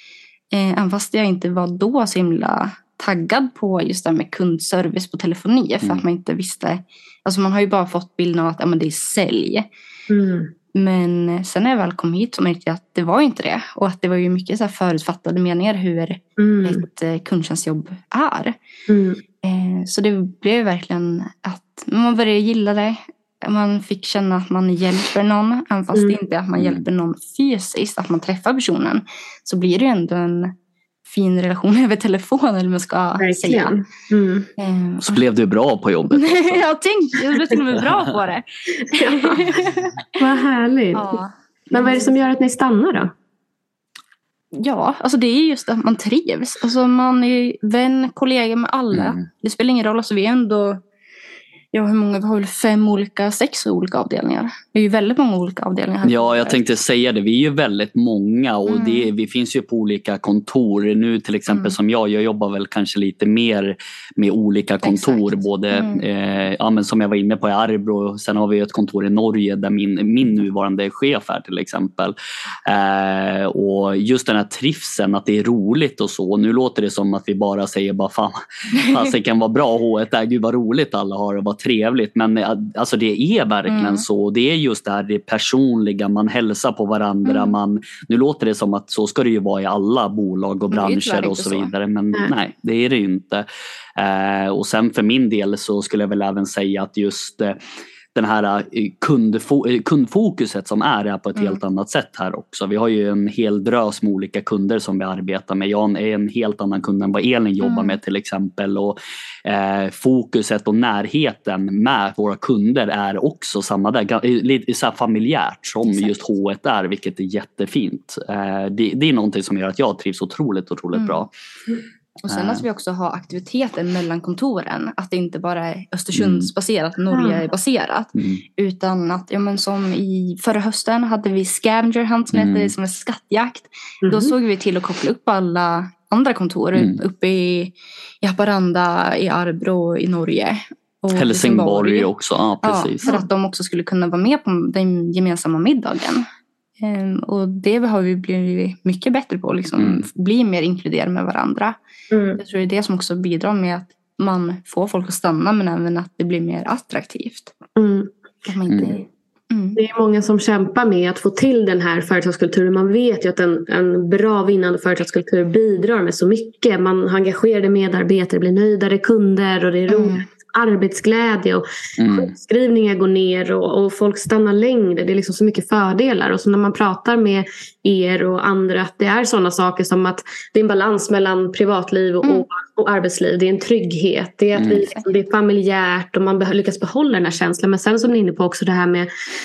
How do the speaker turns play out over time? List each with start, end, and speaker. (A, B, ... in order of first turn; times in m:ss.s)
0:00.5-0:09.6 A
0:10.1-0:10.5 B
0:10.7-0:18.5 A
0:16.4-0:16.8 B
0:18.9-0:19.2 B
0:19.4-0:30.5 A
0:26.6-0:26.8 C
0:31.0-0:33.7 A
0:33.2-0:34.5 B
0:34.6-0:35.2 A
0:35.0-0:36.6 C
0:36.1-0:40.0 A
0:38.9-0:39.5 B
0:40.2-0:41.1 B
0:40.9-0:42.1 A
0:41.7-0:43.1 B
0:44.5-0:50.8 A
0:48.9-0:49.2 C
0:51.7-0:56.6 A
0:56.0-1:12.1 C
0:58.7-0:59.1 A
1:01.5-1:01.7 A
1:04.8-1:06.0 A
1:12.6-1:33.4 C
1:23.7-1:24.0 A
1:27.2-1:27.6 A
1:30.7-1:31.7 A
1:34.0-1:37.6 C
1:38.1-2:01.3 C
1:41.4-1:41.6 A
1:47.6-1:48.0 A
1:55.8-1:56.2 A
2:00.9-2:01.2 A
2:02.2-2:22.1 A
2:02.3-2:02.6 C
2:06.1-2:06.5 C
2:07.1-2:07.4 B
2:08.1-2:08.4 C
2:12.3-2:12.7 C
2:14.0-2:14.3 B
2:21.2-2:23.1 C
2:22.6-2:26.2 A
2:26.8-2:31.8 A
2:29.8-2:30.0 C
2:32.1-2:32.4 B
2:32.4-2:37.5 A
2:37.8-2:38.1 B
2:38.4-2:39.8 A
2:38.7-2:39.0 C
2:39.8-3:09.1 B
2:49.9-2:50.2 A
2:52.0-2:52.3 C
3:04.5-3:04.8 C